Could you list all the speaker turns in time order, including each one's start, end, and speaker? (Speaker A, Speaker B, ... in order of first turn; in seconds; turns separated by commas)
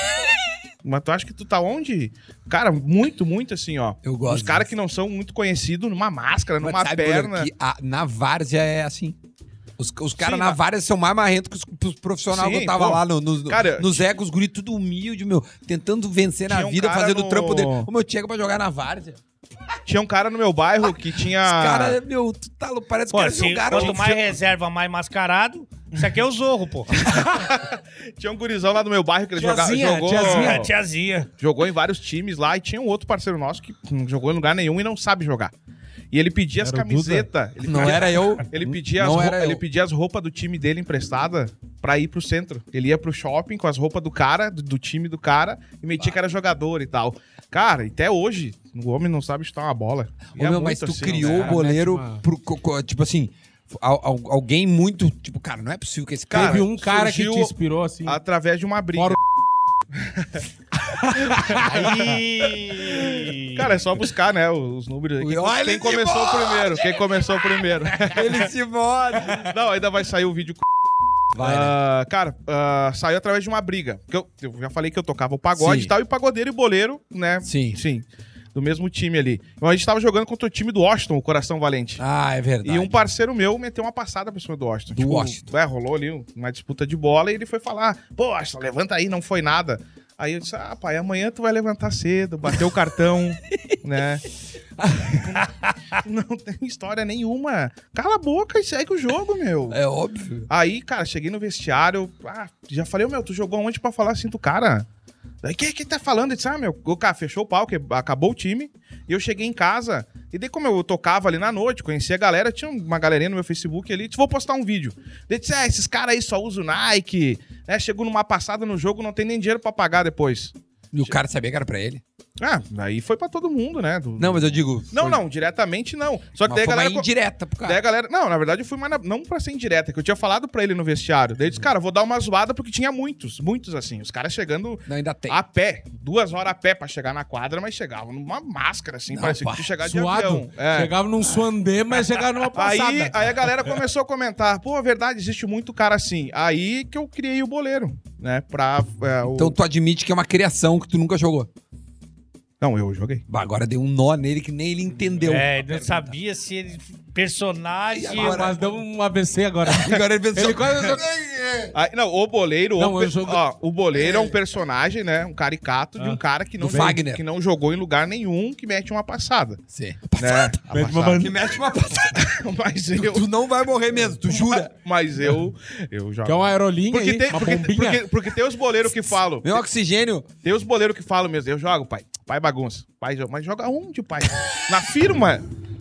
Speaker A: 0.8-7.5, Speaker B: 4.0-4.7, Speaker B: 6.6-9.2, Speaker B: 9.8-19.2, Speaker A: 10.2-10.6, Speaker A: 12.3-14.0, Speaker A: 16.5-17.9, Speaker A: 19.9-22.0, Speaker B: 21.4-24.2, Speaker C: 23.1-27.0, Speaker A: 23.7-24.2, Speaker A: 27.0-30.7, Speaker D: 29.4-30.7, Speaker C: 30.1-31.3, Speaker A: 31.4-35.5, Speaker A: 36.1-51.6, Speaker D: 36.6-37.3, Speaker B: 37.6-39.6, Speaker B: 50.3-56.7, Speaker D: 51.0-52.2, Speaker A: 56.3-57.5, Speaker D: 56.3-58.2, Speaker A: 58.0-59.2, Speaker A: 60.0-60.3, Speaker D: 61.0-61.9, Speaker A: 61.3-62.2, Speaker C: 61.8-63.7, Speaker A: 62.9-68.5, Speaker B: 65.2-67.0, Speaker B: 67.9-69.5, Speaker A: 69.3-70.7, Speaker B: 71.3-71.8, Speaker A: 71.4-82.0, Speaker B: 75.5-75.9, Speaker B: 77.4-77.8, Speaker B: 82.0-83.0, Speaker A: 82.6-94.2, Speaker B: 84.9-85.4, Speaker B: 94.8-95.4, Speaker A: 96.0-99.8, Speaker B: 99.7-100.5, Speaker A: 100.5-104.9, Speaker A: 105.4-121.2, Speaker B: 120.9-122.0, Speaker A: 122.4-127.1, Speaker B: 124.2-125.2, Speaker B: 126.4-127.8, Speaker A: 127.6-140.9, Speaker B: 134.8-135.4, Speaker B: 139.1-139.7, Speaker D: 139.8-143.4, Speaker A: 142.5-149.5, Speaker B: 149.3-151.5, Speaker A: 152.6-153.2, Speaker B: 153.3-156.1, Speaker C: 155.2-158.4, Speaker B: 157.9-158.6, Speaker D: 158.2-161.0, Speaker B: 159.6-161.8, Speaker A: 161.7-169.6, Speaker D: 162.8-163.4, Speaker D: 166.0-166.9, Speaker B: 166.6-167.2, Speaker B: 169.7-172.3, Speaker A: 170.2-171.2, Speaker D: 170.7-171.3, Speaker A: 172.1-173.2, Speaker B: 172.9-174.7, Speaker A: 174.2-179.6, Speaker D: 176.2-178.1, Speaker B: 179.4-180.3, Speaker A: 180.4-185.4